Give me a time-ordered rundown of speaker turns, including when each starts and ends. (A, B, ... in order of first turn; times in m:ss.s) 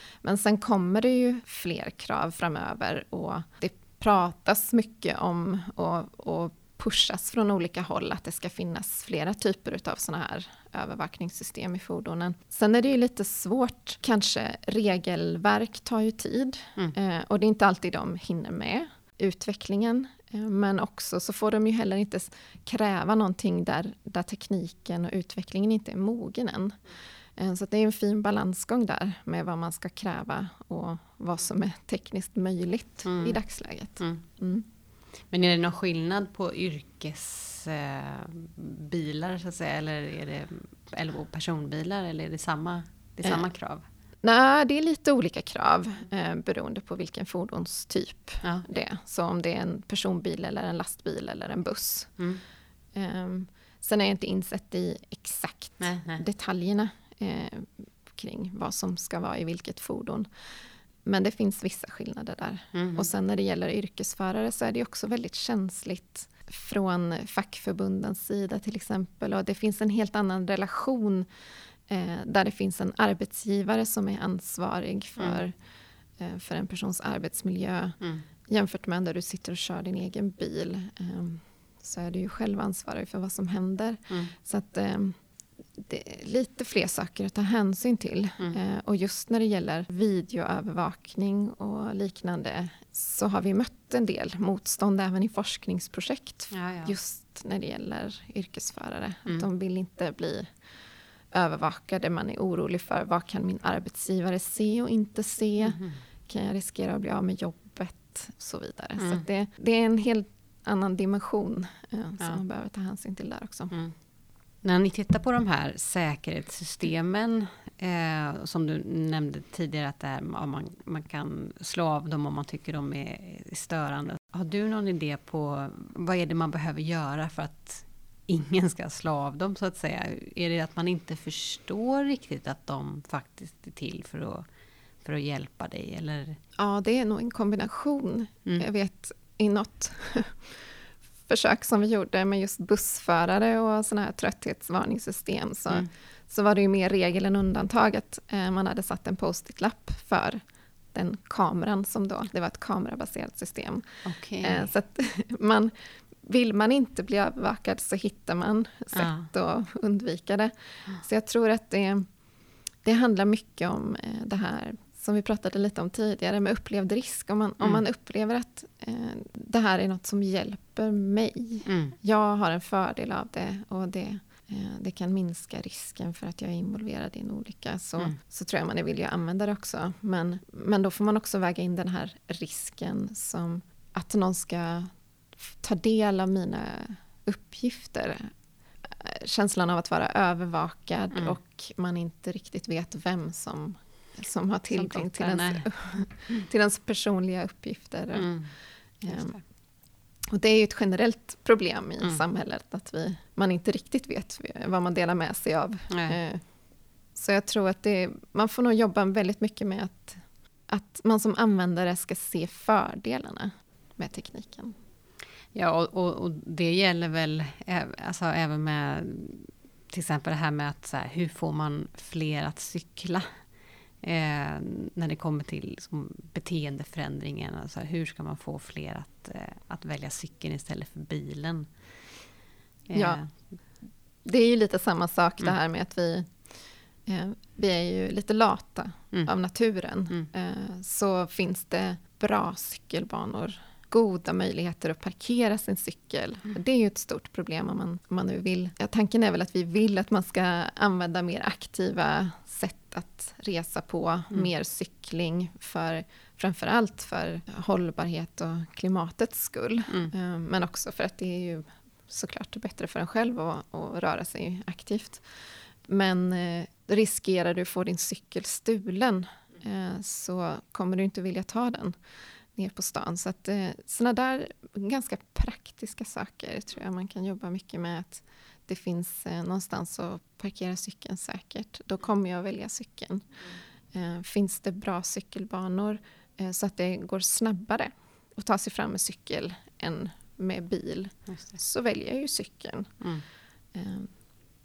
0:00.2-0:26.8 A
0:27.4-0:34.6 A
0:33.0-0:33.4 B
0:35.3-0:43.8 B
0:44.2-0:52.1 A
0:52.9-1:00.2 A
0:55.8-0:56.2 B
1:01.0-1:11.3 A
1:02.7-1:03.1 B
1:11.9-1:15.5 A
1:16.2-1:25.2 A
1:25.8-1:40.4 A
1:36.5-1:36.9 B
1:41.3-1:53.7 A
1:45.6-1:46.0 B
1:54.6-2:14.4 B
2:15.0-2:16.4 B
2:16.6-2:20.6 A
2:21.3-2:30.4 A
2:30.9-2:33.8 A
2:34.0-2:34.7 B
2:34.4-2:35.7 A
2:36.2-2:42.1 A
2:38.9-2:39.3 B
2:42.8-3:08.3 A
2:51.6-2:52.0 B
3:08.8-3:18.3 A
3:14.7-3:15.7 B
3:18.1-3:18.5 B
3:19.0-3:19.4 A
3:19.1-3:19.4 B
3:20.3-3:26.4 A
3:25.9-3:26.2 B
3:27.2-3:34.8 A
3:35.5-3:43.3 B
3:44.0-3:51.7 B
3:52.9-3:53.4 B
3:52.9-3:53.2 A
3:54.2-3:56.3 A
3:57.0-4:25.2 A
4:25.8-4:31.9 A
4:32.6-4:43.3 A
4:43.9-4:52.9 A
4:51.3-4:51.6 B
4:53.7-4:54.1 A